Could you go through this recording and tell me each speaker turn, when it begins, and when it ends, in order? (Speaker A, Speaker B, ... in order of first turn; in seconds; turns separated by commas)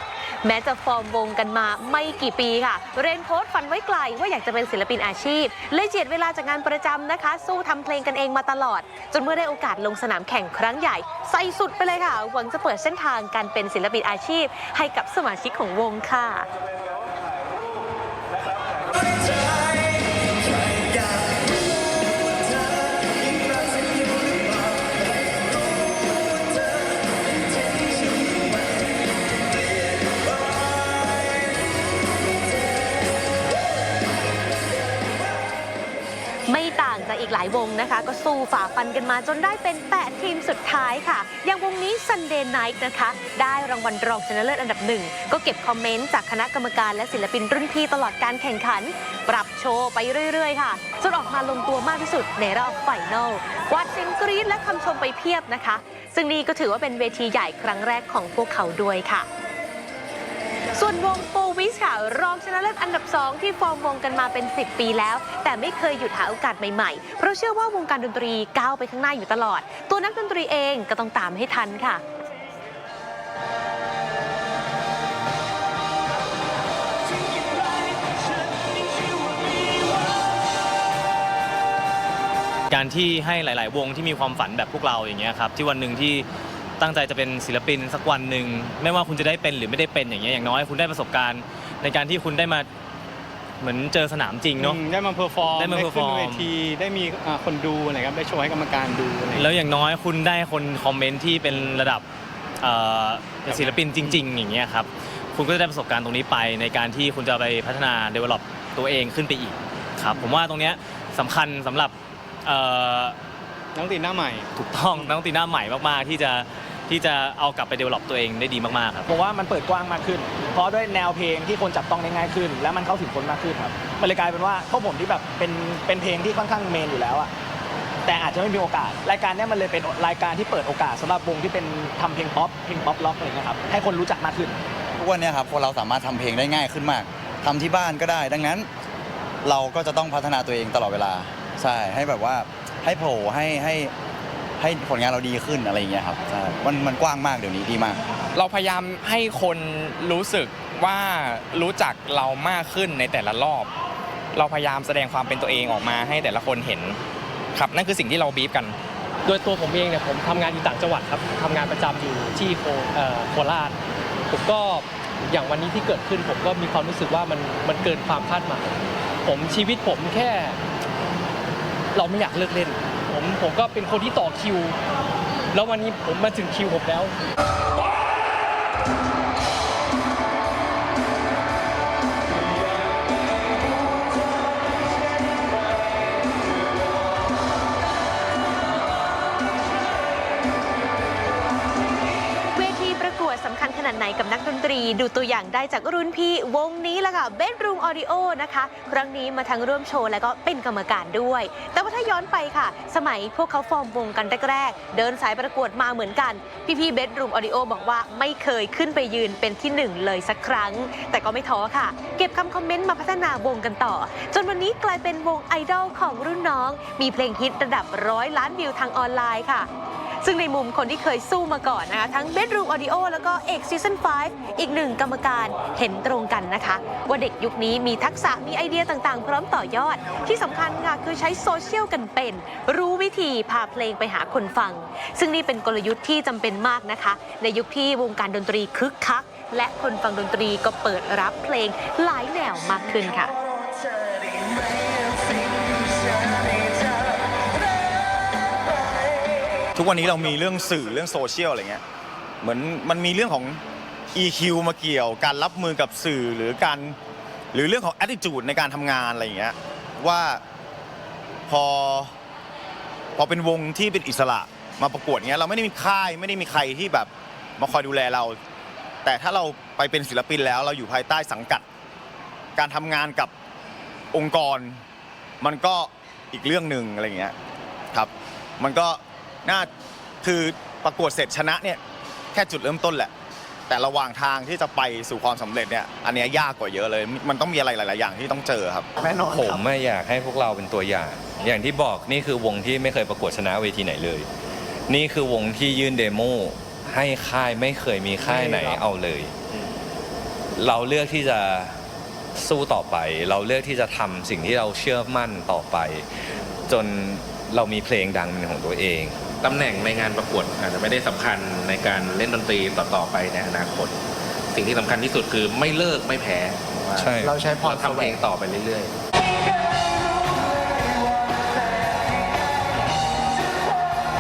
Speaker A: 0.4-16.5, Speaker A: 36.5-59.3, Speaker A: 60.7-72.0, Speaker B: 82.7-86.2, Speaker B: 86.8-92.7, Speaker B: 93.6-94.8, Speaker C: 94.6-99.6, Speaker B: 95.5-96.5, Speaker B: 99.3-102.0, Speaker C: 101.5-101.8, Speaker B: 102.6-111.9, Speaker C: 103.5-104.2, Speaker B: 112.4-113.1, Speaker C: 113.8-115.2, Speaker B: 114.6-119.1, Speaker D: 119.1-127.3, Speaker D: 128.1-134.6, Speaker E: 135.0-138.7, Speaker E: 139.4-143.9, Speaker E: 144.6-148.0, Speaker F: 148.3-153.7, Speaker F: 154.3-156.9, Speaker F: 157.5-158.7, Speaker G: 159.2-163.8, Speaker G: 164.3-170.6, Speaker G: 171.9-174.8, Speaker G: 175.5-177.1, Speaker A: 192.5-219.7, Speaker A: 220.2-243.3, Speaker H: 249.8-251.8, Speaker H: 252.4-253.6, Speaker H: 254.1-257.0, Speaker H: 257.5-260.4, Speaker H: 261.5-262.1, Speaker H: 263.2-268.4, Speaker H: 269.0-271.6, Speaker H: 272.6-273.3, Speaker H: 274.1-274.8, Speaker H: 275.4-277.3, Speaker H: 277.9-279.7, Speaker H: 280.2-281.8, Speaker H: 282.3-283.1, Speaker H: 283.7-288.9, Speaker I: 289.3-294.3, Speaker I: 294.9-299.3, Speaker I: 300.6-301.8, Speaker I: 302.3-309.2, Speaker J: 306.3-306.6, Speaker J: 309.4-314.0, Speaker J: 314.5-318.9, Speaker I: 316.9-317.4